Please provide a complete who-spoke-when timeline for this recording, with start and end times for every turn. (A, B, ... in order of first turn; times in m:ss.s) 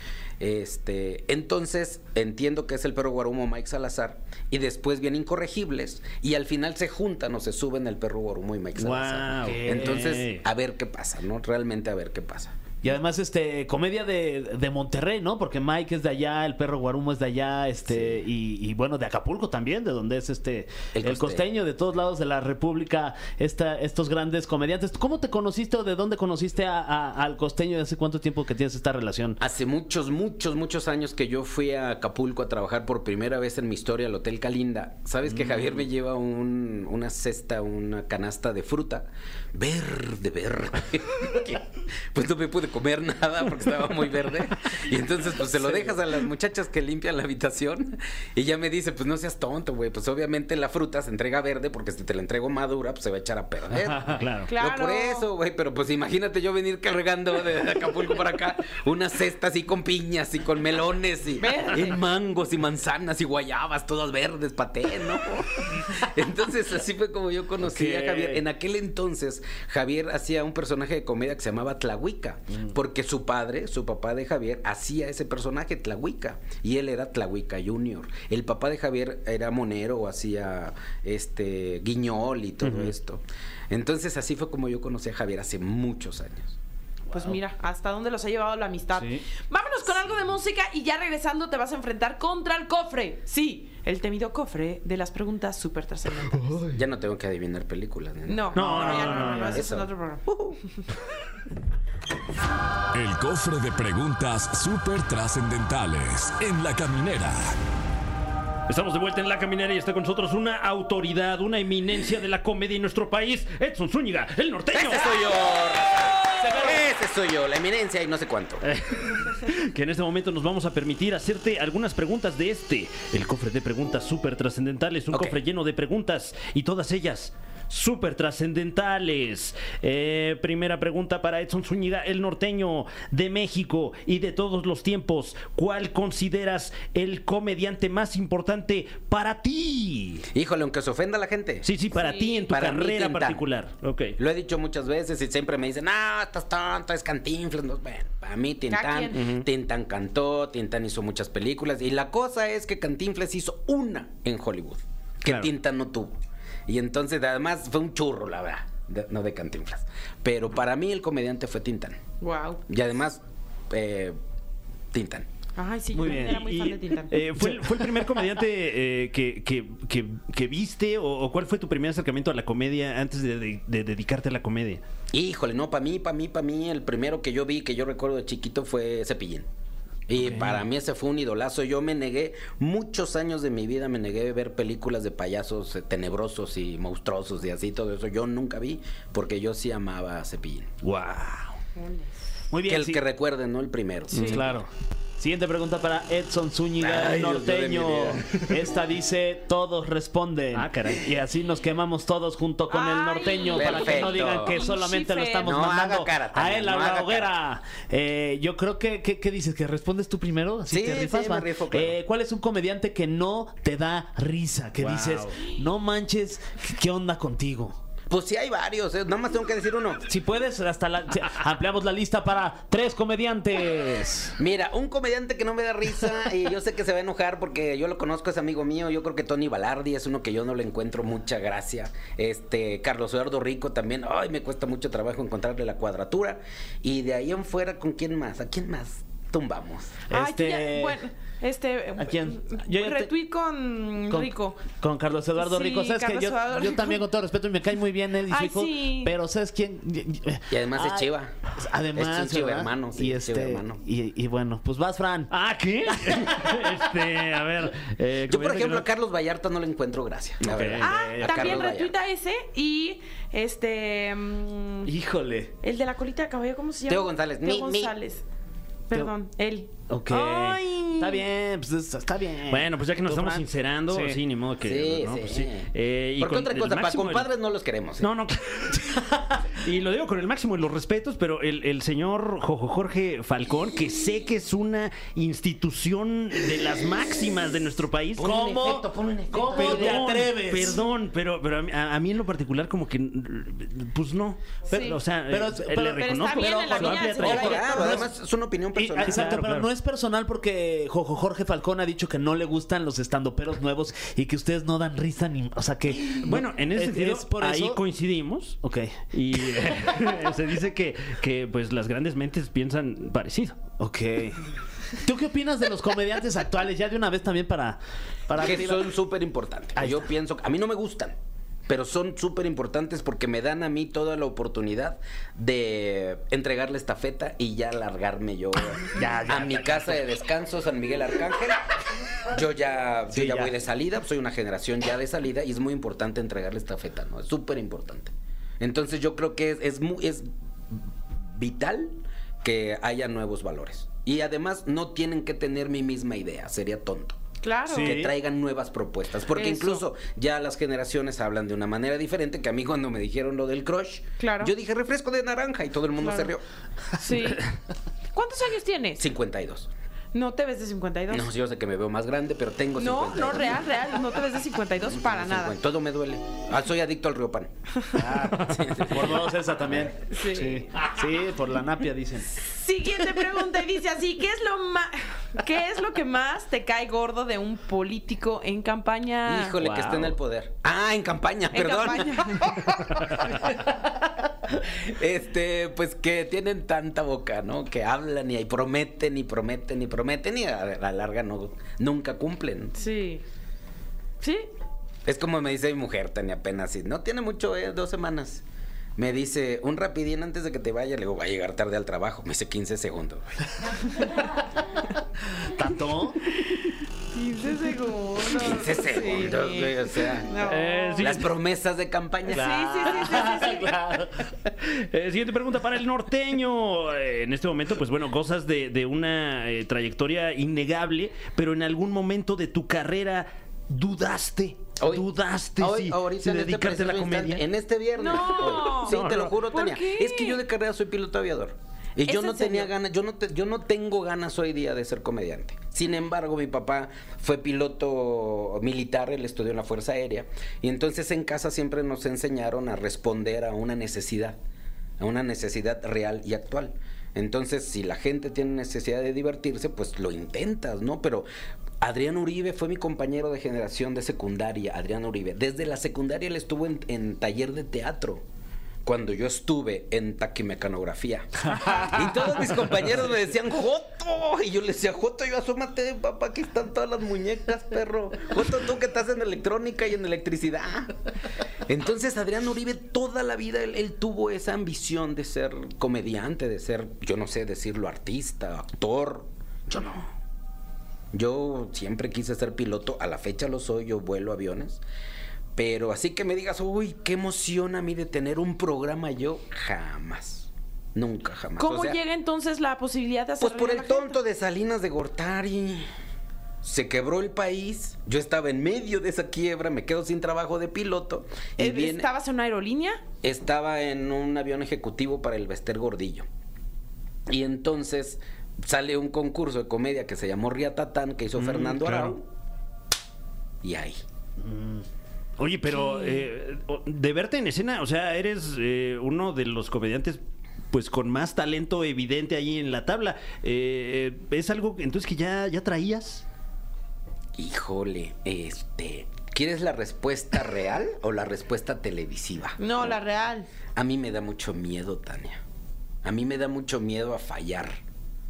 0:00.4-0:12.6 A
0:08.8-0:10.3 B
0:09.0-0:10.4 C
0:12.8-0:29.4 B
0:17.9-0:18.2 A
0:20.9-0:21.5 A
0:29.4-1:26.6 A
0:54.1-0:54.5 C
0:54.5-0:55.2 D
1:01.4-1:02.0 D
1:07.7-1:08.4 B
1:22.6-1:22.9 C
1:27.1-1:36.6 D
1:36.7-1:40.6 A
1:38.3-1:40.2 D
1:38.6-1:39.6 C
1:38.6-1:39.6 B
1:42.9-1:47.6 E
1:48.7-1:55.3 C
1:54.7-1:58.6 A
1:58.6-2:20.3 C
2:05.1-2:05.4 A
2:20.3-2:21.7 A
2:21.6-2:24.2 C
2:22.0-2:22.4 D
2:22.5-2:23.4 A
2:24.2-2:36.2 A
2:28.7-2:29.2 D
2:29.2-2:29.4 C
2:36.7-2:42.0 A
2:42.2-2:42.6 D
2:42.7-2:44.2 A
2:44.9-2:45.3 A
2:45.6-2:47.1 D
2:45.9-2:46.4 B
2:46.0-2:54.8 C
2:47.4-2:48.3 B
2:55.1-2:59.5 A
3:00.1-3:10.7 A
3:00.2-3:00.6 C
3:10.8-3:11.4 C
3:11.8-3:12.1 D
3:12.5-3:13.0 B
3:12.6-3:14.4 A
3:14.1-3:14.5 C
3:14.1-3:14.4 D
3:14.3-3:37.8 B
3:16.8-3:18.7 A
3:20.5-3:21.1 C
3:22.7-3:25.5 D
3:23.5-3:24.6 A
3:25.4-3:27.3 A
3:30.7-3:32.0 A
3:34.8-3:35.4 C
3:38.1-3:40.0 A
3:40.1-3:44.4 B
3:44.4-4:00.0 A
4:00.1-4:01.0 B
4:00.1-4:04.6 D
4:02.0-4:03.1 B
4:04.1-4:15.3 B
4:05.4-4:07.0 D
4:08.3-4:09.1 D
4:10.5-4:11.4 A
4:12.0-4:13.8 A
4:15.3-4:18.9 C
4:18.3-4:22.0 A
4:20.4-4:21.1 C
4:20.8-4:24.9 D
4:20.9-4:21.6 B
4:24.9-4:25.5 B
4:25.6-4:28.2 D
4:26.9-4:28.0 A
4:28.9-4:29.7 D
4:29.9-4:34.2 B
4:30.1-4:31.0 C
4:32.5-4:37.3 C
4:34.6-4:38.1 A
4:38.0-4:48.4 C
4:38.9-4:39.4 B
4:48.2-4:50.3 A
4:48.2-4:50.8 B
4:49.5-4:58.0 C
4:54.7-4:55.0 D
4:54.7-4:58.1 B
4:56.0-4:58.0 D
4:57.2-4:59.4 A
4:58.8-5:07.8 B
4:59.0-4:59.7 C
5:06.0-5:08.6 C
5:08.6-5:09.9 B
5:09.1-5:13.6 C
5:13.8-5:14.4 B
5:15.0-5:18.9 B
5:18.4-5:21.2 A
5:19.8-5:20.0 B
5:21.7-5:47.2 A
5:28.9-5:30.0 B
5:33.1-5:33.5 B
5:47.4-5:48.0 D
5:47.7-5:48.1 B
5:47.8-5:56.4 A
5:49.3-5:49.8 D
5:54.2-5:54.5 D
5:56.0-5:56.3 D
5:57.0-5:57.5 D
5:58.1-5:59.0 D
5:59.0-5:59.7 A
6:00.1-6:01.3 D
6:01.1-6:03.7 A
6:02.8-6:05.5 D
6:04.8-6:07.5 A
6:07.9-6:12.4 B
6:08.3-6:08.7 C
6:08.4-6:09.3 A
6:10.1-6:10.7 D
6:12.4-6:19.6 D
6:19.2-6:23.7 A
6:19.6-6:20.1 C
6:21.5-6:23.0 D
6:24.5-6:32.8 A
6:32.8-6:33.2 D
6:34.2-6:34.5 D
6:35.0-6:38.4 A
6:39.0-6:43.9 A
6:45.4-6:46.2 B
6:47.1-6:51.1 D
6:48.3-6:50.3 A
6:50.4-6:51.3 C
6:51.0-6:52.6 A
6:52.3-6:53.9 D
6:52.3-6:54.2 B
6:54.6-7:07.4 C
7:04.8-7:24.4 A
7:08.0-7:10.4 D
7:08.4-7:09.3 C
7:12.1-7:12.7 D
7:25.0-7:31.3 A
7:31.8-7:38.2 A
7:38.8-7:51.0 A
7:51.7-8:00.1 A
8:01.1-8:04.8 A
8:05.6-8:12.0 A
8:11.6-8:14.2 D
8:13.4-8:15.9 A
8:16.6-8:22.1 A
8:21.6-8:23.0 D
8:23.2-8:26.3 A
8:27.3-8:32.3 A
8:31.4-8:32.2 C
8:33.6-8:34.0 A
8:35.4-8:40.2 C
8:35.7-8:36.2 D
8:40.7-8:46.2 C
8:47.4-8:53.0 A
8:52.6-8:53.5 D
8:53.8-8:55.4 A
8:56.0-8:57.8 A